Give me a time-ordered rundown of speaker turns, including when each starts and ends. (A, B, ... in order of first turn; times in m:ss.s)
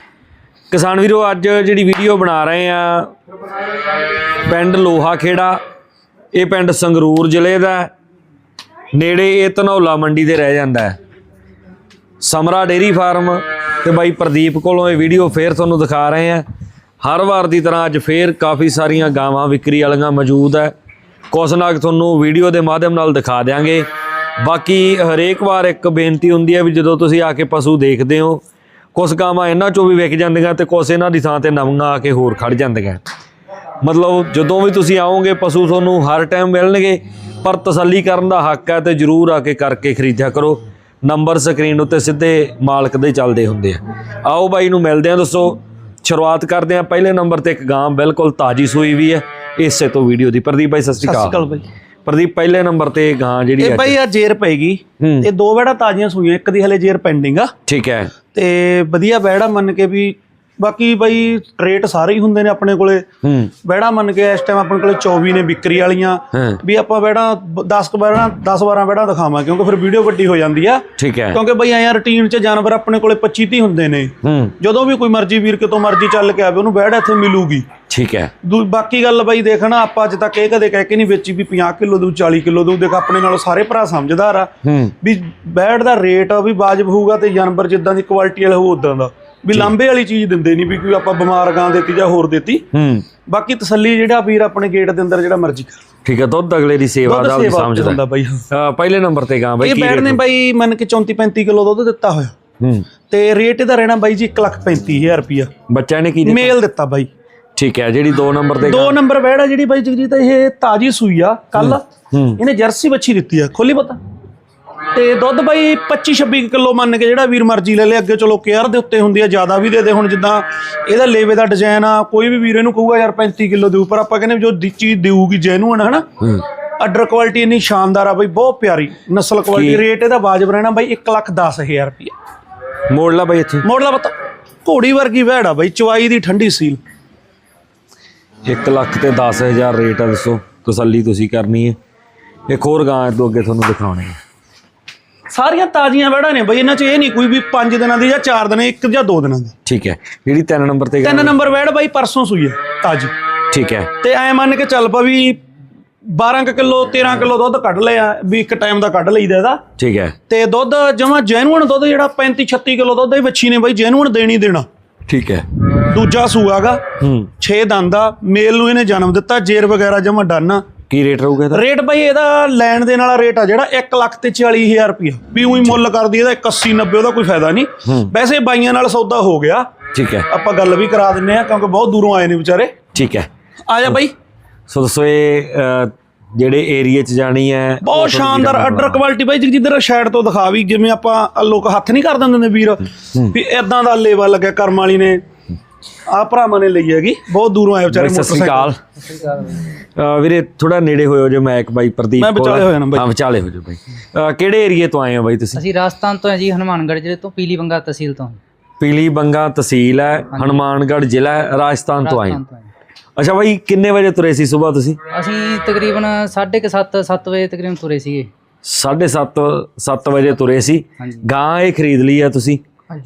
0:00.7-0:03.1 A
0:04.4-0:05.6 A
0:06.3-0:07.9 A
0:08.9-0:11.0 A
0:12.2-0:16.4 A
0:17.0-0:20.7 A
0:21.3-0:23.9 A
0:24.4-0:28.4 A
0:29.0-0:33.0 A
0:33.8-0:51.4 A
0:51.0-0:51.7 B
0:52.1-0:54.0 A
0:53.6-0:57.5 B
0:55.0-0:55.3 A
0:57.7-0:58.1 A
0:58.3-1:03.1 B
1:03.2-1:03.5 A
1:03.6-1:17.7 B
1:06.3-1:06.6 A
1:11.0-1:11.4 A
1:14.2-1:14.6 A
1:17.9-1:18.3 A
1:18.4-1:32.6 B
1:24.6-1:24.9 A
1:32.7-1:33.1 A
1:33.3-1:35.8 B
1:36.0-1:38.0 A
1:37.1-1:38.5 B
1:38.5-1:40.2 A
1:39.6-1:42.3 B
1:42.6-1:42.9 A
1:43.1-1:45.5 B
1:45.7-1:46.6 A
1:46.2-1:47.1 B
1:47.6-1:49.0 A
1:48.6-1:51.8 B
1:51.6-1:52.4 A
1:52.4-1:54.0 B
1:54.9-2:06.0 B
2:06.8-2:12.1 B
2:09.5-2:09.8 A
2:12.9-2:13.7 A
2:13.6-2:16.8 B
2:18.5-2:21.8 A
2:22.5-2:24.2 A
2:25.3-2:29.5 B
2:29.6-2:31.4 A
2:31.0-2:33.1 B
2:33.5-2:33.9 A
2:34.0-2:35.4 B
2:36.1-2:39.6 B
2:39.8-2:40.2 A
2:40.3-2:44.7 B
2:45.1-2:45.4 A
2:45.8-2:46.8 B
2:47.0-2:47.3 A
2:47.4-2:50.6 B
2:50.9-2:51.6 A
2:51.5-2:59.7 B
2:59.9-3:00.3 A
3:00.3-3:02.7 B
3:02.9-3:03.3 A
3:03.7-3:04.1 B
3:04.7-3:09.0 A
3:07.8-3:15.2 B
3:16.1-3:18.8 B
3:17.9-3:18.8 A
3:19.1-3:19.6 C
3:20.0-3:25.6 A
3:22.2-3:23.1 B
3:25.6-3:28.4 C
3:28.8-3:32.4 A
3:30.3-3:30.6 C
3:32.0-3:32.7 C
3:33.2-3:35.0 A
3:35.1-3:38.3 C
3:38.6-3:42.6 A